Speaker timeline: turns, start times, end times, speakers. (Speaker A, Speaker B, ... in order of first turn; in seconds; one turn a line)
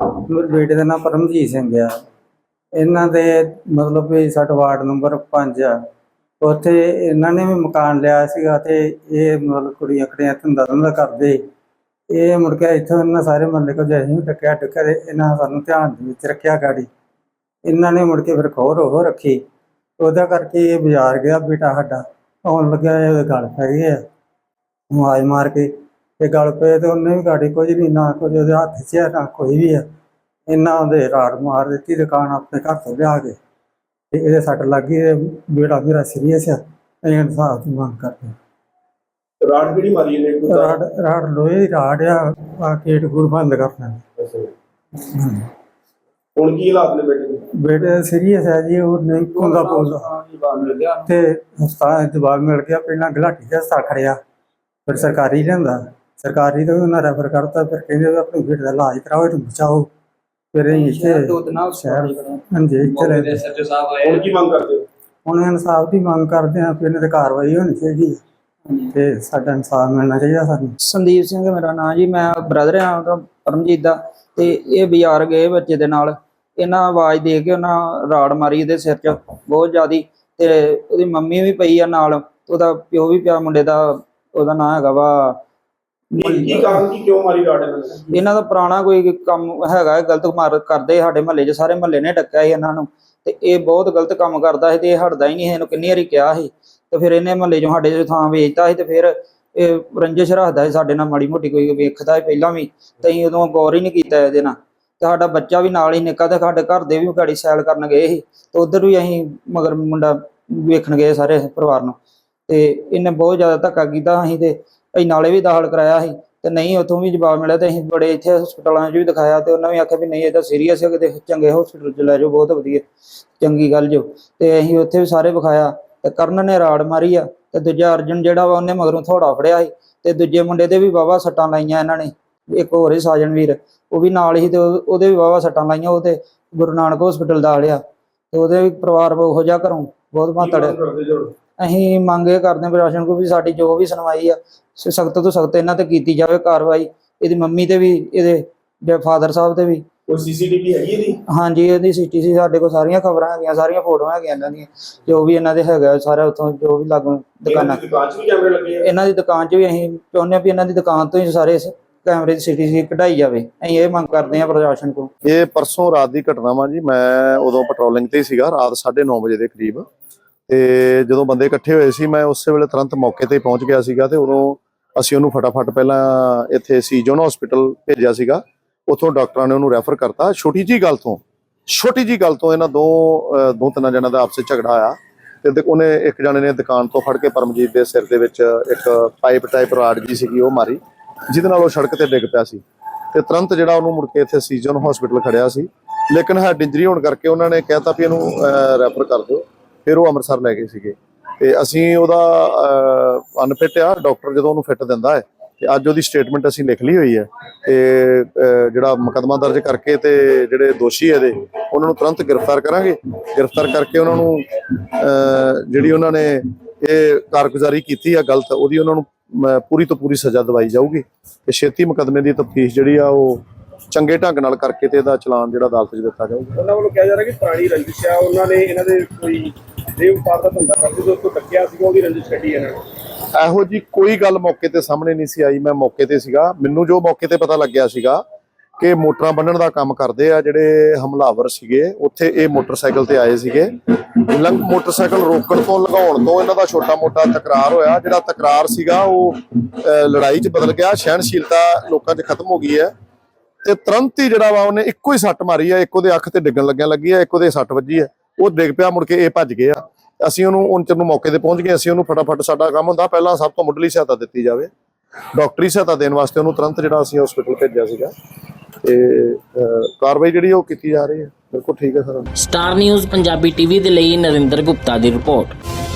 Speaker A: 0.3-2.0
Speaker A: 2.8-5.8
Speaker A: 6.4-11.4
Speaker A: 12.1-16.9
Speaker A: 17.6-19.4
Speaker A: 20.0-24.0
Speaker A: 24.9-29.8
Speaker A: 30.5-33.4
Speaker A: 34.1-38.4
Speaker B: 39.4-40.8
Speaker A: 40.5-44.0
Speaker A: 45.1-45.5
Speaker B: 46.4-47.5
Speaker A: 47.5-50.1
Speaker C: 49.3-51.1
Speaker A: 51.1-54.2
Speaker A: 54.9-59.9
Speaker A: 60.5-63.5
Speaker C: 60.7-64.2
Speaker B: 64.0-64.8
Speaker A: 65.3-68.2
Speaker A: 68.9-70.7
Speaker C: 70.8-85.4
Speaker B: 86.2-88.1
Speaker C: 86.2-86.8
Speaker C: 88.1-112.0
Speaker C: 112.5-122.8
Speaker C: 123.4-137.8
Speaker C: 138.3-140.8
Speaker B: 140.4-141.3
Speaker C: 141.6-149.8
Speaker B: 150.1-151.2
Speaker C: 151.3-157.8
Speaker B: 157.5-158.8
Speaker C: 158.8-165.1
Speaker D: 165.2-169.9
Speaker D: 170.5-192.6
Speaker D: 193.1-226.6
Speaker B: 226.6-232.8
Speaker D: 233.3-238.2
Speaker D: 238.8-252.9
Speaker D: 253.6-264.7
Speaker D: 265.3-268.1
Speaker D: 268.8-272.3
Speaker E: 272.4-275.6